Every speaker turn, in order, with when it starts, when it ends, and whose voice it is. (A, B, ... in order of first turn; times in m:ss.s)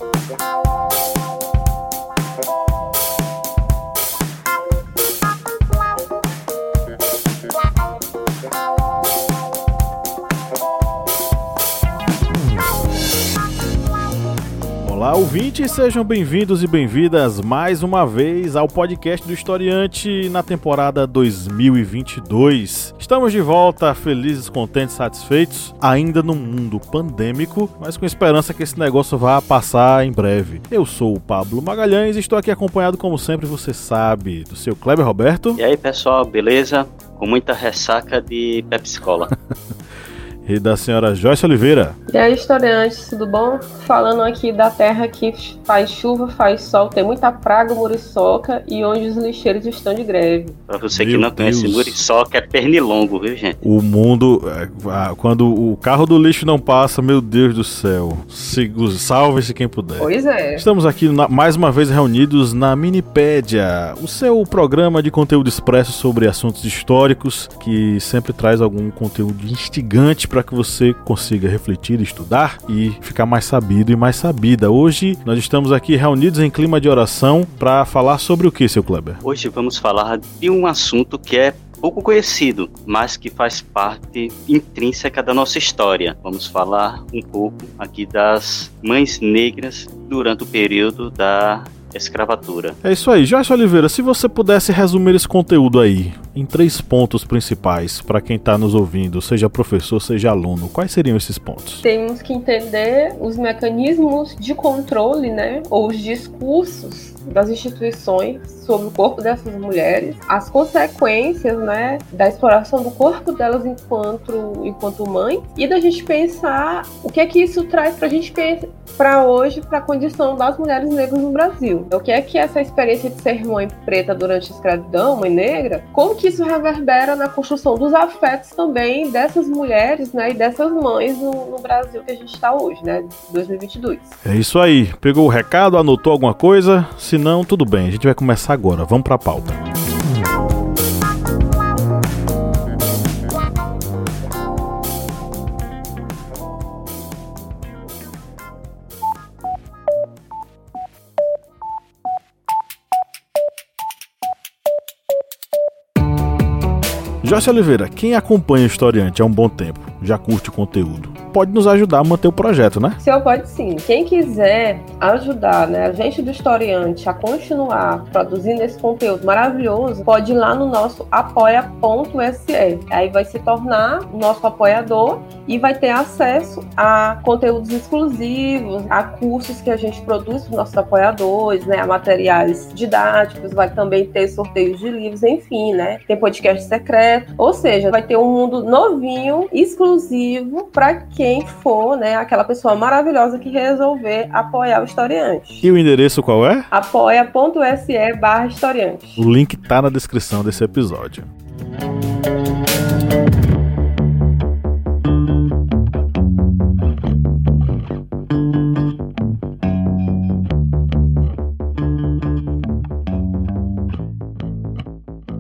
0:14.8-0:35.6 A
0:35.6-0:39.3 B
0:40.4-0:42.0 A
0:42.1-0:50.6 C
0:50.7-0:53.6 B
0:50.9-0:52.0 A
0:53.6-1:19.2 A
1:00.0-1:00.7 C
1:19.2-1:32.8 B
1:32.8-1:41.8 A
1:41.8-2:14.1 C
2:14.2-2:19.6 A
2:37.2-2:43.0 A
2:43.0-3:15.7 C
3:15.6-3:16.7 A
3:16.7-3:19.2 C
3:19.2-3:21.3 A